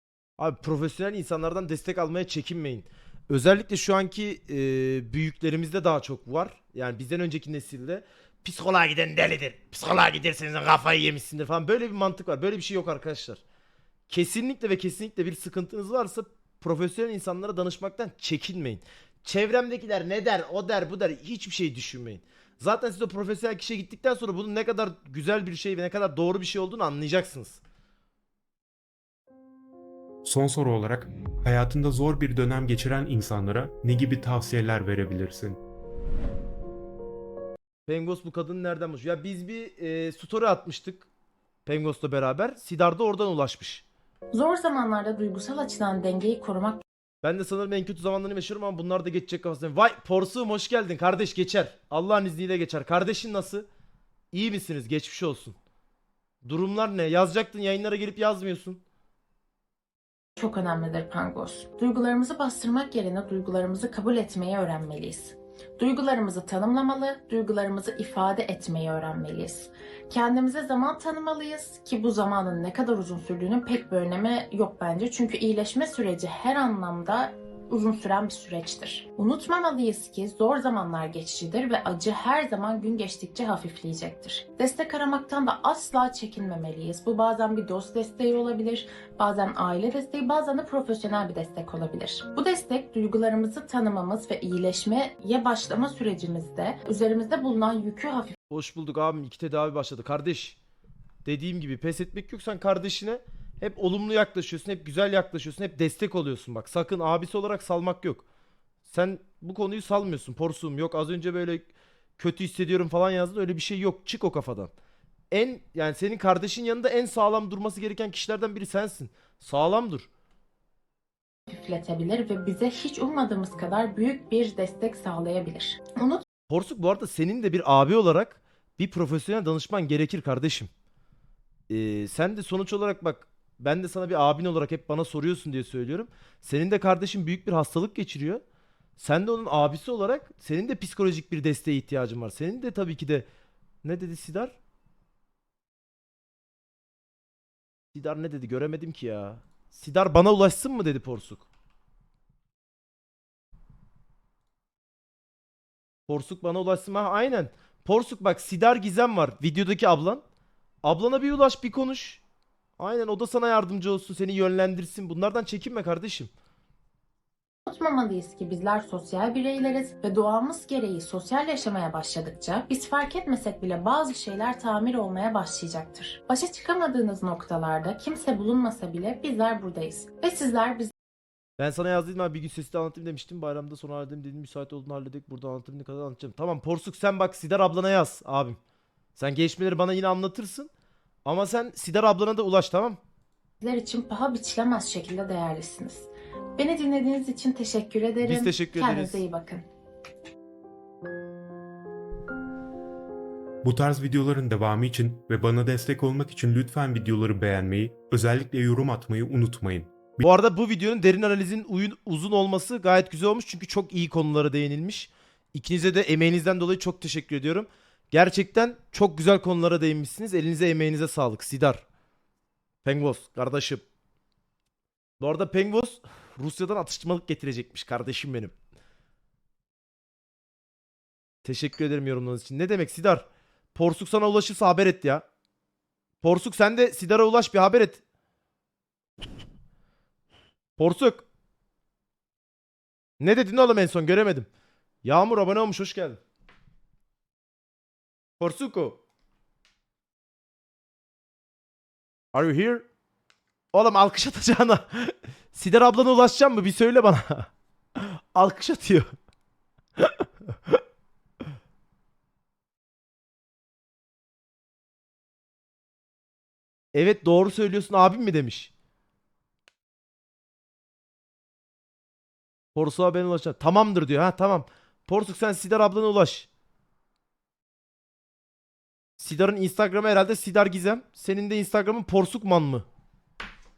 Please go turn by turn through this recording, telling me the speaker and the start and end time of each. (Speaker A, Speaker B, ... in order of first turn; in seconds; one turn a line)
Speaker A: 0.4-13.4
Speaker A: 14.1-27.6
Speaker B: 30.2-35.6
Speaker A: 37.9-41.1
Speaker A: 41.6-43.8
Speaker C: 44.3-46.8
Speaker A: 47.2-53.7
Speaker A: 54.3-55.6
Speaker A: 56.4-58.8
Speaker C: 60.4-98.4
Speaker A: 98.5-100.6
Speaker A: 101.2-108.2
Speaker A: 108.8-114.7
Speaker A: 115.3-120.1
Speaker C: 121.5-126.2
Speaker A: 126.5-130.7
Speaker A: 131.7-138.4
Speaker A: 139.0-143.2
Speaker A: 143.8-144.5
Speaker A: 147.9-151.4
Speaker A: 156.1-160.2
Speaker A: 160.8-162.2
Speaker A: 162.8-166.3
Speaker C: 167.7-180.9
Speaker A: 181.6-188.6
Speaker A: 189.2-190.7
Speaker A: 191.2-193.0
Speaker C: 193.6-199.7
Speaker A: 198.2-199.2
Speaker B: 203.6-210.2
Speaker A: 210.2-221.8
Speaker A: 222.8-223.8
Speaker A: 225.2-228.5
Speaker A: 231.4-235.2
Speaker A: 236.2-238.0
Speaker A: 240.8-241.2
Speaker A: 243.2-244.5
Speaker A: 245.0-246.2
Speaker A: 248.4-249.0
Speaker A: 252.3-252.8
Speaker A: 253.7-259.1
Speaker A: 266.9-268.7
Speaker A: 272.7-276.5
Speaker A: 279.2-282.9